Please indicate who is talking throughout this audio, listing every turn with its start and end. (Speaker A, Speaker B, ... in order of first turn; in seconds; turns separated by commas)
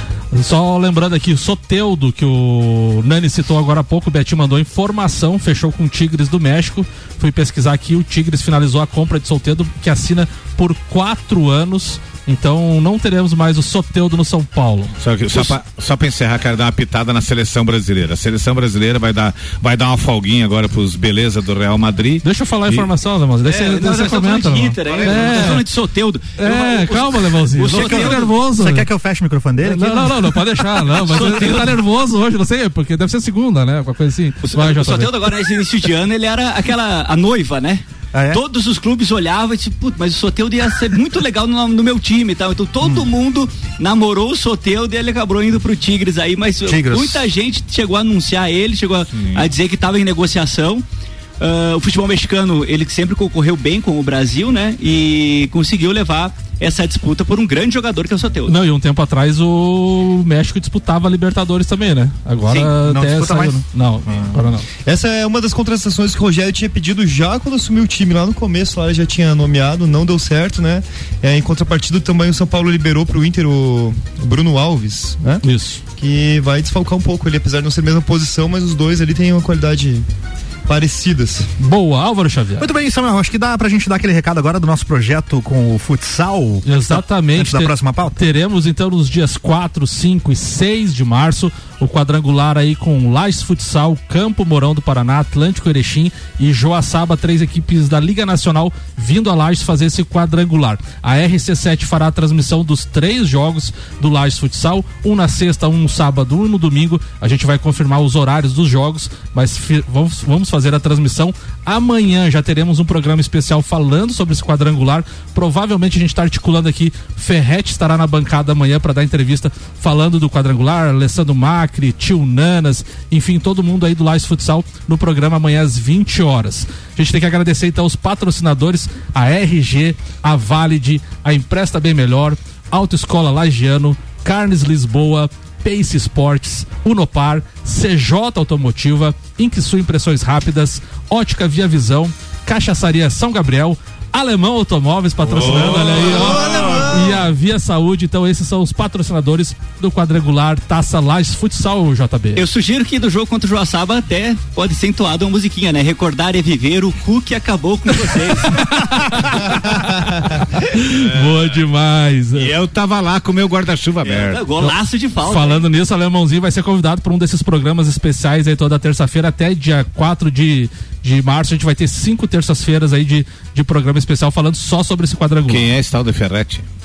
Speaker A: 0.3-15.5, Speaker B: 15.0-22.9, Speaker A: 22.2-25.7, Speaker C: 23.5-28.3, Speaker B: 24.9-25.6, Speaker A: 26.4-28.9, Speaker D: 27.7-30.5, Speaker A: 29.6-35.1, Speaker C: 31.1-31.8, Speaker D: 31.1-31.5, Speaker C: 34.4-50.8, Speaker D: 38.1-38.4, Speaker D: 46.6-47.3, Speaker B: 49.1-49.5, Speaker C: 51.4-58.5, Speaker A: 58.5-64.7, Speaker D: 62.5-63.6, Speaker E: 64.9-75.4, Speaker A: 75.4-75.8, Speaker E: 76.0-80.0, Speaker E: 80.7-81.5, Speaker A: 81.6-82.7, Speaker D: 82.6-88.2, Speaker A: 86.7-152.4, Speaker B: 145.2-146.9, Speaker E: 146.1-147.2, Speaker C: 152.4-158.7, Speaker A: 158.4-162.5, Speaker B: 160.9-161.6, Speaker B: 162.4-164.4, Speaker C: 164.0-165.6, Speaker A: 164.6-175.7, Speaker B: 175.5-176.7